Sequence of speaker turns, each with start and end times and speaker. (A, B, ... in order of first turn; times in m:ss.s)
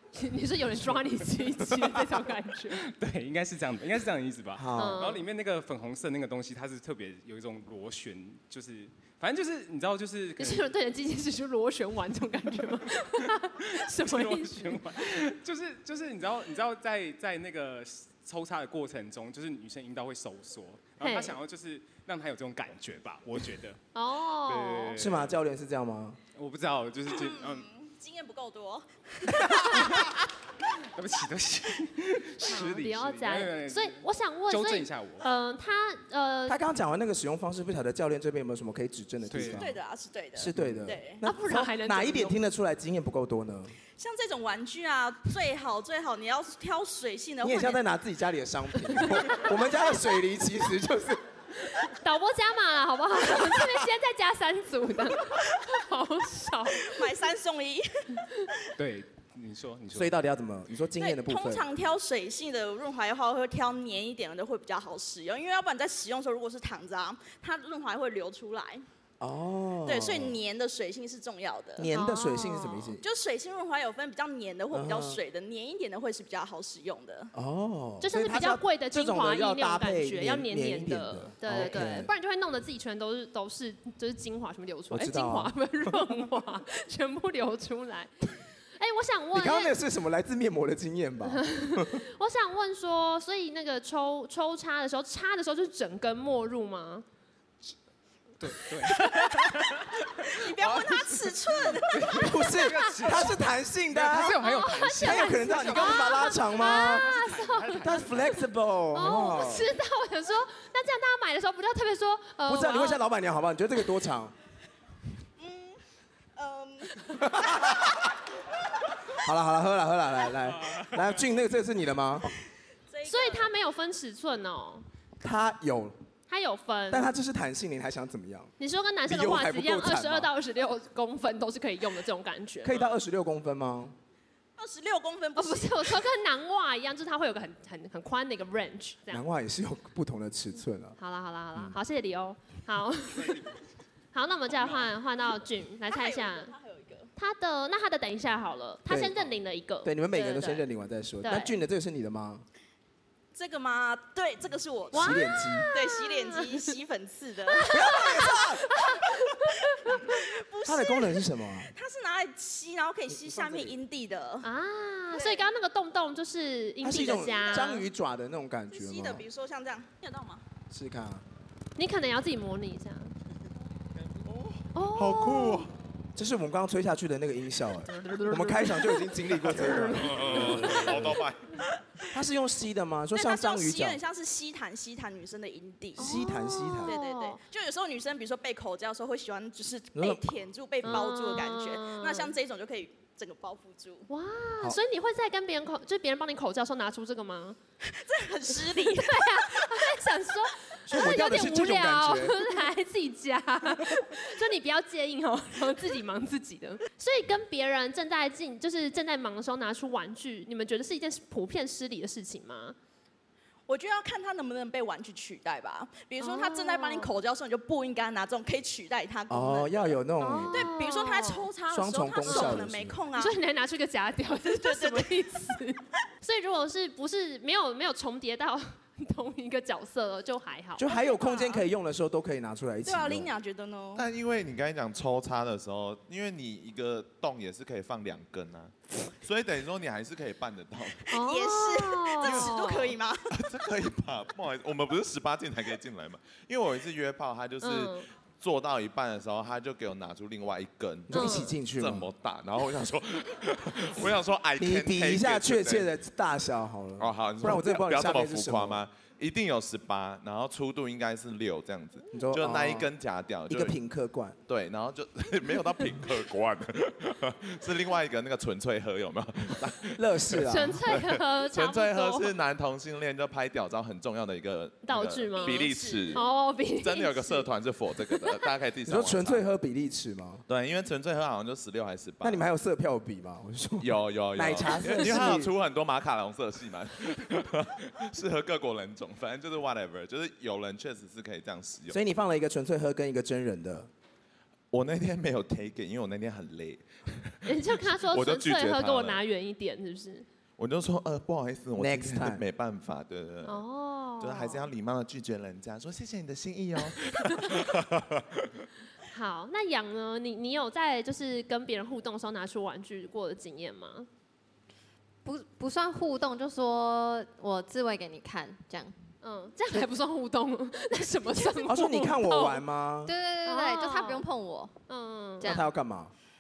0:00.1-0:02.9 A
0:02.8-0:10.7 B
0:04.6-0:05.1 C
0:04.8-0:05.2 A
0:10.4-0:14.8 A
0:13.6-0:23.8 B
0:21.0-0:21.4 A
0:24.0-0:24.9 A
0:24.5-0:25.4 B
0:25.0-0:26.2 C
0:26.4-0:27.7 B
0:27.1-0:30.1 D
0:29.7-0:30.2 B
0:31.0-0:35.2 B
0:32.4-0:36.6 A
0:36.5-0:39.8 C
0:39.3-0:39.7 B
0:39.4-0:41.2 D
0:40.4-0:43.8 C
0:41.2-0:42.4 A
0:44.0-0:47.8 D
0:47.4-0:51.2 C
0:51.6-0:57.0 A
0:56.8-0:57.9 D
0:58.8-1:00.2 B
0:59.9-1:01.7 C
1:01.0-1:08.9 D
1:09.2-1:10.4 C
1:09.9-1:11.9 D
1:11.8-1:13.0 C
1:11.9-1:13.0 A
1:13.0-1:17.3 D
1:14.7-1:15.2 C
1:17.3-1:22.1 C
1:18.0-1:28.1 A
1:24.9-1:26.2 C
1:28.8-1:29.8 A
1:29.3-1:32.0 C
1:31.3-1:37.0 A
1:38.4-1:48.4 B
1:38.9-1:39.4 D
1:40.3-1:42.3 D
1:42.1-1:44.4 C
1:44.4-1:48.0 A
1:45.0-1:47.1 C
1:47.8-1:49.7 C
1:48.9-1:53.0 A
1:52.4-1:54.3 C
1:55.4-1:55.8 D
1:56.4-1:57.8 D
1:57.2-1:58.0 C
1:59.1-2:02.3 C
2:02.9-2:03.5 D
2:03.1-2:04.8 A
2:05.2-2:06.0 C
2:06.3-2:07.1 A
2:06.9-2:08.5 C
2:08.6-2:12.8 A
2:09.1-2:10.3 C
2:12.6-2:14.0 C
2:14.6-2:16.0 D
2:15.4-2:19.2 A
2:19.1-2:21.0 C
2:21.0-2:23.6 A
2:24.1-2:26.5 A
2:25.9-2:27.1 D
2:27.2-2:30.7 A
2:28.9-2:29.2 C
2:29.8-2:32.4 C
2:31.2-2:31.6 A
2:33.4-2:38.6 D
2:34.9-2:35.7 C
2:34.9-2:36.7 A
2:37.5-2:40.1 A
2:37.7-2:38.6 C
2:39.8-2:44.5 D
2:40.6-2:41.7 C
2:43.1-2:43.8 C
2:44.4-2:47.9 A
2:45.1-2:45.4 D
2:46.8-2:49.2 C
2:47.1-2:47.8 D
2:48.7-2:50.4 D
2:50.7-2:51.2 C
2:51.8-2:53.1 A
2:54.7-2:55.7 A
2:54.9-2:55.7 E
2:56.2-3:01.1 C
2:59.9-3:01.6 E
3:00.4-3:00.9 A
3:02.1-3:04.0 C
3:03.1-3:06.2 D
3:06.0-3:06.9 C
3:06.0-3:07.4 A
3:06.8-3:14.1 D
3:09.9-3:10.2 C
3:10.8-3:12.3 A
3:14.1-3:17.6 A
3:17.8-3:19.9 D
3:18.5-3:32.8 A
3:20.9-3:22.4 C
3:33.7-3:40.0 D
3:36.2-3:37.1 A
3:39.3-3:40.7 C
3:40.2-3:41.5 A
3:40.5-3:43.4 D
3:41.7-3:43.0 C
3:42.2-3:42.6 A
3:43.2-3:50.8 A
3:44.5-3:45.3 D
3:50.8-3:53.3 C
3:50.9-3:51.6 D
3:52.8-3:54.0 D
3:54.0-4:01.1 E
4:01.1-4:02.9 A
4:01.1-4:03.3 D
4:02.2-4:02.6 E
4:03.3-4:15.9 E
4:07.6-4:08.1 A
4:11.1-4:12.1 C
4:11.1-4:11.5 A
4:14.6-4:18.8 C
4:17.0-4:23.8 E
4:22.1-4:22.9 C
4:23.5-4:24.4 C
4:24.5-4:36.2 E
4:30.0-4:30.8 C
4:30.5-4:32.3 A
4:34.8-4:37.5 A
4:35.4-4:36.2 D
4:36.8-4:39.4 E
4:38.1-4:38.5 A
4:38.9-4:40.4 C
4:40.5-4:42.4 E
4:42.2-4:45.5 C
4:43.8-4:52.0 E
4:44.9-4:45.2 A
4:51.9-4:53.9 C
4:54.7-4:59.2 E
4:57.4-5:00.3 A
5:00.6-5:03.6 E
5:01.8-5:02.4 C
5:03.4-5:04.7 A
5:04.2-5:08.5 E
5:09.1-5:14.1 A
5:15.2-5:18.9 F
5:19.2-5:22.6 A
5:21.6-5:23.1 C
5:23.0-5:24.7 F
5:23.4-5:24.3 A
5:24.9-5:25.5 A
5:25.4-5:25.7 F
5:25.4-5:26.1 C